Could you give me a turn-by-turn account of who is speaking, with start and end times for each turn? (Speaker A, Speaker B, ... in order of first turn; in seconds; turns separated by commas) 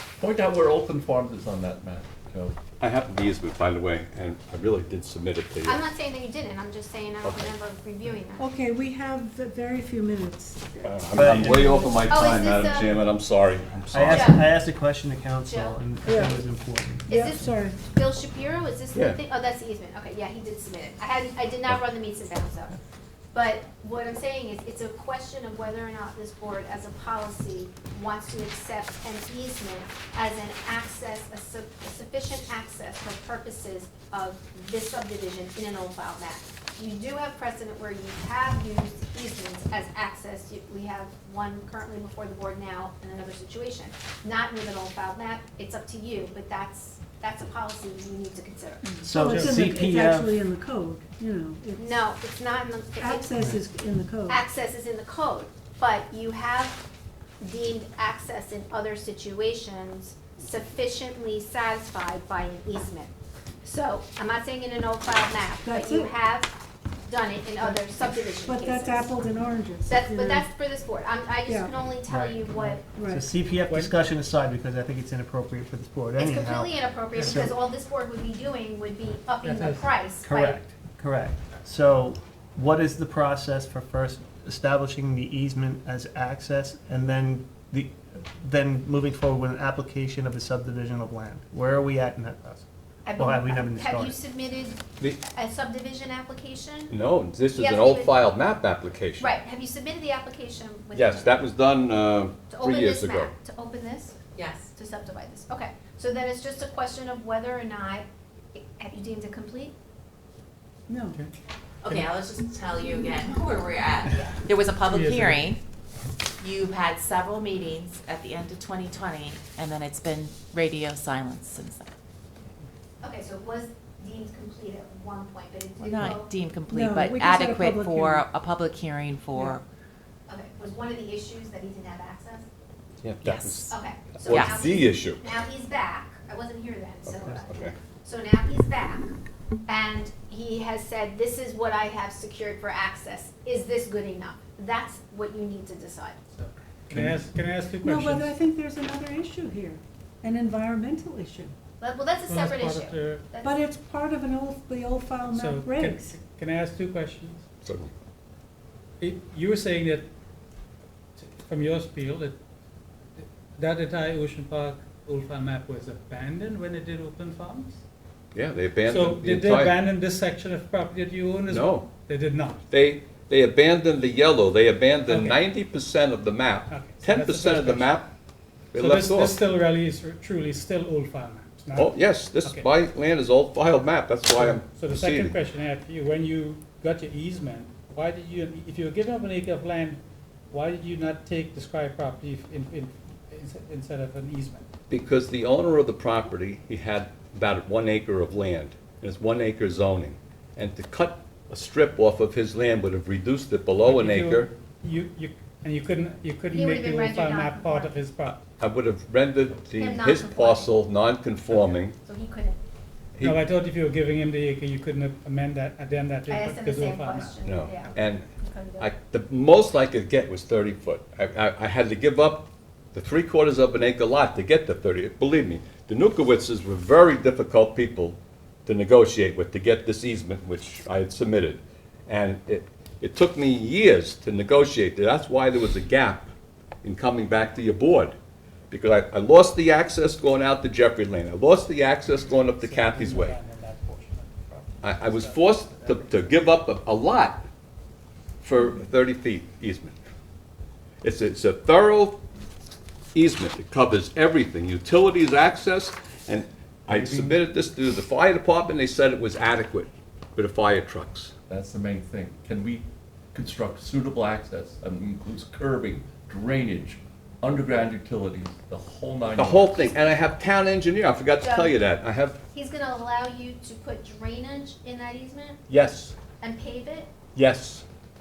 Speaker A: 0.2-2.6, Speaker B: 2.8-5.8, Speaker C: 5.6-8.5, Speaker B: 7.2-7.5, Speaker D: 8.4-12.0, Speaker B: 10.8-14.3, Speaker E: 11.1-11.9, Speaker C: 12.1-13.0, Speaker E: 13.9-17.1, Speaker C: 14.1-14.5, Speaker C: 15.4-15.8, Speaker D: 16.1-16.3, Speaker D: 17.1-17.8, Speaker C: 17.1-22.8, Speaker B: 18.9-19.2, Speaker C: 23.3-49.0, Speaker D: 48.9-52.1, Speaker E: 49.0-50.4, Speaker F: 49.2-49.6, Speaker C: 51.8-53.4, Speaker D: 53.0-54.4, Speaker C: 54.3-56.8, Speaker C: 57.4-63.1, Speaker C: 63.6-66.5, Speaker D: 65.6-66.1, Speaker C: 67.1-69.1, Speaker D: 67.6-70.5, Speaker C: 69.8-72.8, Speaker D: 71.5-71.8, Speaker E: 72.1-77.6, Speaker D: 72.8-73.3, Speaker F: 73.7-73.9, Speaker C: 76.2-80.6, Speaker F: 79.4-79.9, Speaker E: 80.2-94.2, Speaker C: 93.0-97.0, Speaker B: 96.9-99.3, Speaker C: 97.5-98.2, Speaker C: 99.2-101.5, Speaker B: 100.9-103.3, Speaker C: 102.5-104.2, Speaker G: 104.3-104.7, Speaker C: 104.7-109.8, Speaker D: 110.9-111.2, Speaker G: 111.8-115.6, Speaker F: 114.9-115.5, Speaker G: 116.4-121.9, Speaker C: 123.0-126.3, Speaker G: 125.8-129.6, Speaker D: 126.7-128.3, Speaker C: 130.3-132.4, Speaker B: 133.0-135.3, Speaker G: 133.2-133.7, Speaker C: 133.7-139.1, Speaker G: 134.3-134.6, Speaker B: 137.1-137.7, Speaker C: 139.7-146.2, Speaker F: 146.3-148.3, Speaker B: 146.9-147.2, Speaker D: 147.8-151.5, Speaker C: 151.8-153.6, Speaker F: 152.3-153.2, Speaker D: 153.4-156.2, Speaker F: 155.3-157.4, Speaker B: 157.6-157.9, Speaker F: 159.0-160.1, Speaker F: 161.2-162.3, Speaker F: 163.2-167.8, Speaker B: 168.3-169.8, Speaker F: 168.8-172.6, Speaker B: 171.5-171.9, Speaker B: 172.7-178.1, Speaker F: 175.1-175.4, Speaker F: 176.7-178.0, Speaker B: 178.7-179.4, Speaker F: 178.7-182.7, Speaker B: 181.7-185.3, Speaker F: 184.3-194.7, Speaker B: 194.9-204.5, Speaker F: 203.8-208.4, Speaker C: 206.5-208.0, Speaker B: 208.6-211.9, Speaker C: 209.8-210.8, Speaker C: 211.8-212.6, Speaker B: 213.2-213.4, Speaker F: 213.2-217.4, Speaker C: 216.3-218.9, Speaker B: 217.4-218.3, Speaker B: 218.8-236.3, Speaker B: 236.8-238.2, Speaker B: 238.7-243.4, Speaker F: 242.2-246.3, Speaker B: 244.8-247.4, Speaker B: 248.4-249.9, Speaker B: 251.0-252.2, Speaker B: 253.1-261.3, Speaker A: 256.9-257.4, Speaker A: 261.5-269.9, Speaker B: 269.4-272.4, Speaker C: 271.4-271.8, Speaker C: 272.5-275.6, Speaker B: 275.7-276.1, Speaker C: 276.4-277.1, Speaker B: 277.3-277.8